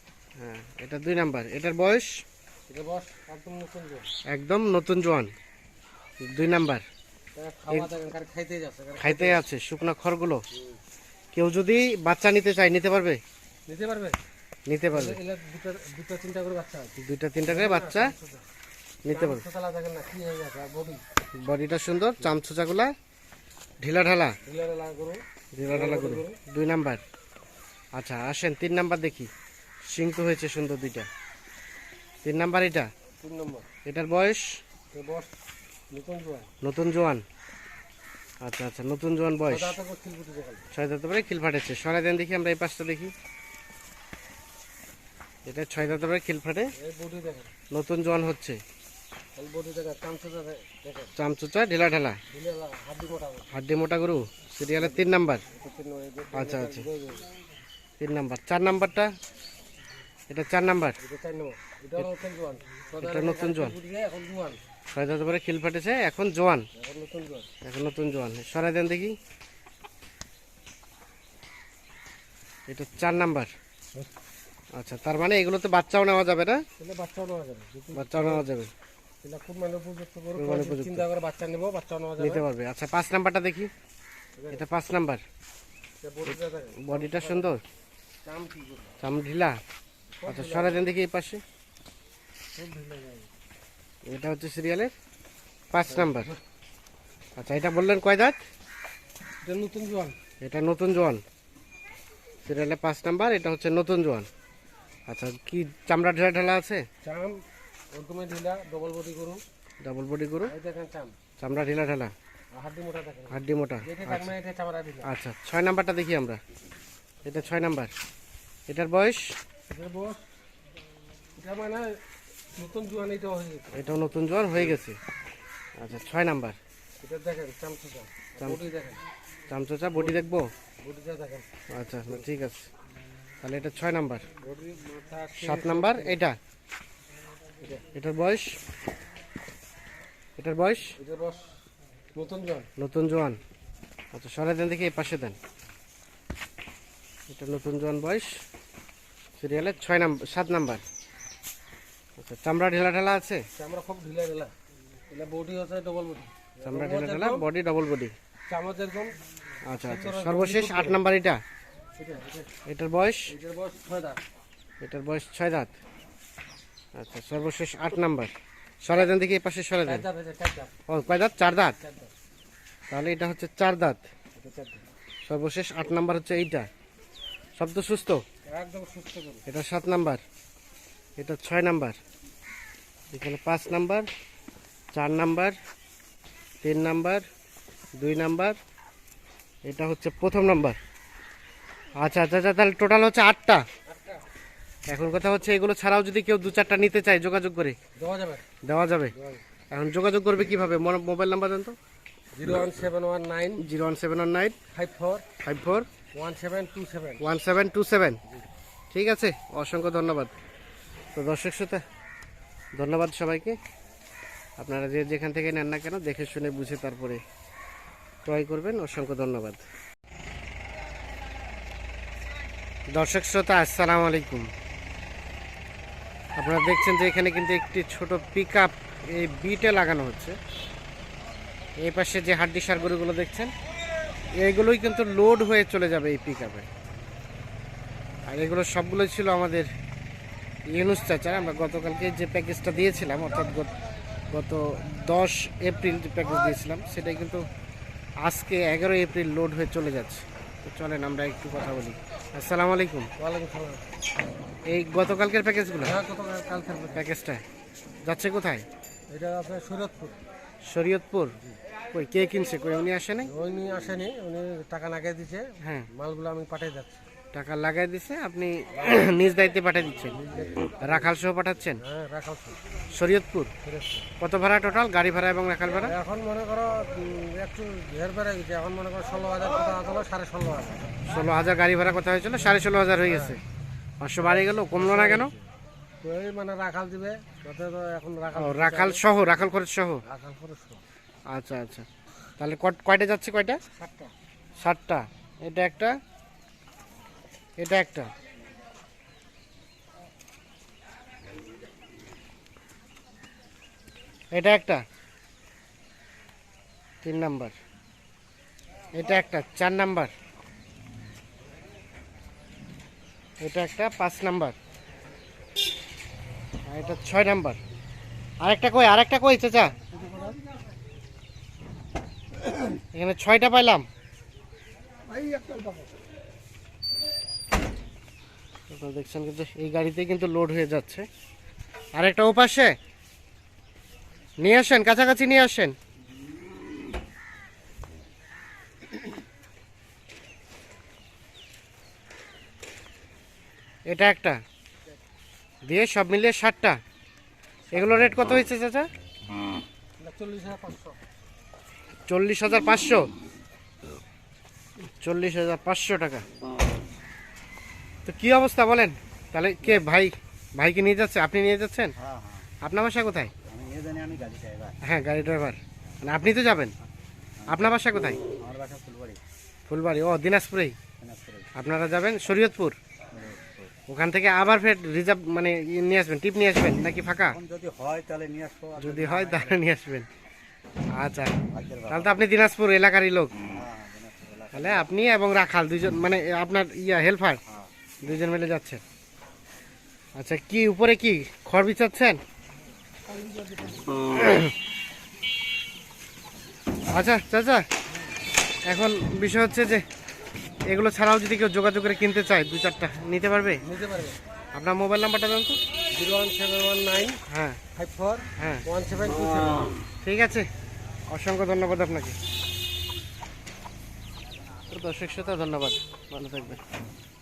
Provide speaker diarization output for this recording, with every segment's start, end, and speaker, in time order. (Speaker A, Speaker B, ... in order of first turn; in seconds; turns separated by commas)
Speaker A: 0.4-2.1, Speaker B: 2.7-4.1, Speaker A: 4.3-5.3, Speaker A: 6.2-6.8, Speaker B: 7.4-9.4, Speaker A: 9.0-10.4, Speaker A: 11.3-13.2, Speaker B: 13.7-14.2, Speaker A: 14.7-15.2, Speaker B: 14.9-18.4, Speaker A: 17.0-18.1, Speaker A: 19.1-19.4, Speaker B: 19.1-21.0, Speaker A: 21.4-22.9, Speaker A: 23.8-24.4, Speaker B: 24.4-26.4, Speaker A: 25.5-27.0, Speaker A: 27.9-29.3, Speaker A: 29.9-31.1, Speaker A: 32.2-32.9, Speaker B: 33.2-33.7, Speaker A: 33.9-34.6, Speaker B: 34.9-35.3, Speaker B: 35.9-36.5, Speaker A: 36.6-37.2, Speaker A: 38.4-39.8, Speaker B: 39.5-40.6, Speaker A: 40.7-43.1, Speaker A: 45.5-46.7, Speaker B: 46.8-47.5, Speaker A: 47.7-48.6, Speaker B: 49.4-51.1, Speaker A: 51.2-52.2, Speaker B: 52.3-53.5, Speaker A: 53.5-55.4, Speaker B: 54.8-57.3, Speaker A: 56.3-56.9, Speaker A: 58.0-59.1, Speaker A: 60.3-61.0, Speaker B: 61.0-64.6, Speaker A: 63.0-63.8, Speaker A: 64.9-66.7, Speaker B: 66.8-67.5, Speaker A: 67.6-69.2, Speaker A: 72.7-73.5, Speaker A: 74.7-76.6, Speaker B: 76.8-78.5, Speaker A: 77.9-78.7, Speaker B: 79.2-82.5, Speaker A: 80.4-81.1, Speaker A: 82.2-83.7, Speaker B: 84.4-84.6, Speaker A: 84.5-85.2, Speaker B: 86.0-87.5, Speaker A: 86.3-87.6, Speaker B: 88.2-88.9, Speaker A: 89.0-89.6, Speaker B: 90.2-90.9, Speaker A: 90.3-91.4, Speaker B: 92.5-93.3, Speaker A: 94.1-94.9, Speaker A: 95.7-96.3, Speaker B: 95.9-96.4, Speaker A: 97.4-98.4, Speaker B: 99.4-100.2, Speaker A: 100.4-101.2, Speaker A: 102.4-104.3, Speaker A: 105.1-106.9, Speaker B: 107.0-109.4, Speaker A: 109.8-110.5, Speaker B: 110.5-111.2, Speaker A: 111.4-112.1, Speaker B: 112.5-115.1, Speaker A: 113.3-114.3, Speaker A: 115.0-116.4, Speaker A: 117.2-117.9, Speaker A: 118.7-119.3, Speaker B: 119.7-120.3, Speaker B: 121.4-122.0, Speaker B: 122.6-123.7, Speaker A: 123.7-125.0, Speaker A: 125.8-126.6, Speaker B: 127.0-129.0, Speaker A: 129.5-130.5, Speaker B: 129.9-130.2, Speaker B: 130.8-131.5, Speaker A: 131.7-132.7, Speaker A: 133.4-134.3, Speaker B: 134.4-136.2, Speaker A: 135.4-136.4, Speaker B: 137.6-137.8, Speaker A: 137.9-138.6, Speaker A: 140.4-140.9, Speaker B: 141.0-141.6, Speaker B: 142.1-142.7, Speaker A: 142.8-143.4, Speaker A: 144.1-145.4, Speaker A: 147.3-148.4, Speaker A: 149.4-150.8, Speaker A: 152.2-153.5, Speaker B: 153.6-154.5, Speaker B: 155.1-157.4, Speaker A: 156.6-158.2, Speaker B: 158.5-159.2, Speaker A: 159.7-161.4, Speaker B: 159.8-161.0, Speaker B: 162.0-162.5, Speaker A: 162.7-163.3, Speaker B: 163.3-164.2, Speaker A: 164.8-165.8, Speaker A: 166.9-170.1, Speaker B: 169.9-170.8, Speaker A: 170.9-171.8, Speaker B: 171.6-172.1, Speaker A: 172.9-174.0, Speaker B: 174.3-174.8, Speaker A: 175.3-176.7, Speaker A: 177.6-178.2, Speaker B: 178.4-179.4, Speaker A: 179.5-180.2, Speaker A: 181.2-182.0, Speaker A: 183.1-184.1, Speaker A: 184.9-185.6, Speaker A: 186.6-187.2, Speaker A: 188.0-188.6, Speaker A: 189.7-190.8, Speaker A: 192.0-193.7, Speaker B: 193.9-194.2, Speaker A: 194.9-197.8, Speaker B: 198.0-198.5, Speaker A: 198.6-199.1, Speaker B: 199.1-199.4, Speaker A: 199.7-201.8, Speaker B: 202.4-203.7, Speaker A: 203.6-204.6, Speaker B: 204.7-205.3, Speaker A: 205.4-205.9, Speaker B: 206.1-207.2, Speaker A: 207.2-208.2, Speaker A: 208.9-210.3, Speaker A: 211.2-211.8, Speaker A: 212.8-213.6, Speaker A: 214.6-217.2, Speaker A: 218.2-219.6, Speaker A: 222.9-224.5, Speaker A: 226.4-230.4, Speaker A: 231.8-233.5, Speaker A: 234.4-236.7, Speaker A: 238.3-239.7, Speaker A: 240.7-243.7, Speaker A: 244.3-247.4, Speaker A: 248.2-253.1, Speaker B: 253.2-253.8, Speaker A: 254.7-256.0, Speaker B: 255.8-257.1, Speaker A: 256.9-257.4, Speaker A: 258.0-258.7, Speaker B: 259.1-260.2, Speaker A: 260.7-261.3, Speaker A: 261.9-263.3, Speaker B: 263.2-267.1, Speaker A: 265.6-265.9, Speaker A: 267.3-270.2, Speaker B: 270.1-271.1, Speaker A: 270.8-271.8, Speaker B: 271.8-272.6, Speaker A: 272.9-273.5, Speaker B: 273.6-274.1, Speaker A: 274.2-275.9, Speaker B: 275.8-281.0, Speaker A: 281.1-283.4, Speaker B: 282.4-283.4, Speaker A: 284.0-285.3, Speaker B: 284.2-285.5, Speaker B: 286.0-289.0, Speaker A: 288.3-290.0, Speaker B: 290.0-290.8, Speaker A: 291.3-291.9, Speaker A: 292.4-293.6, Speaker B: 293.7-294.1, Speaker A: 294.6-296.0, Speaker A: 297.6-298.1, Speaker A: 304.3-304.9, Speaker A: 307.0-307.6, Speaker A: 308.9-310.1, Speaker A: 313.4-314.6, Speaker A: 316.7-317.6, Speaker A: 318.4-319.7, Speaker A: 322.9-323.9, Speaker A: 328.7-331.1, Speaker A: 331.9-332.8, Speaker A: 334.4-335.8, Speaker A: 343.9-344.4, Speaker A: 345.7-346.8, Speaker A: 347.7-348.9, Speaker B: 350.0-351.0, Speaker A: 352.1-353.1, Speaker A: 355.0-356.2, Speaker A: 358.1-361.9, Speaker C: 362.0-362.5, Speaker A: 362.6-363.3, Speaker C: 363.5-364.8, Speaker A: 364.8-366.8, Speaker A: 367.5-368.2, Speaker C: 368.2-369.2, Speaker A: 369.7-370.8, Speaker C: 371.0-371.5, Speaker A: 371.6-372.8, Speaker C: 373.1-373.7, Speaker A: 373.9-377.4, Speaker C: 377.4-379.6, Speaker A: 378.8-380.1, Speaker A: 380.9-381.3, Speaker C: 381.5-382.1, Speaker A: 381.9-383.3, Speaker C: 383.6-384.8, Speaker A: 384.5-387.4, Speaker A: 388.0-388.8, Speaker A: 390.2-392.2, Speaker A: 393.9-394.5, Speaker A: 396.9-397.7, Speaker A: 398.7-399.9, Speaker A: 400.7-403.6, Speaker B: 403.6-404.2, Speaker A: 404.5-405.6, Speaker B: 405.9-407.2, Speaker A: 407.3-407.6, Speaker B: 407.7-409.7, Speaker A: 408.4-408.6, Speaker A: 410.0-410.5, Speaker A: 411.1-412.2, Speaker A: 414.7-416.6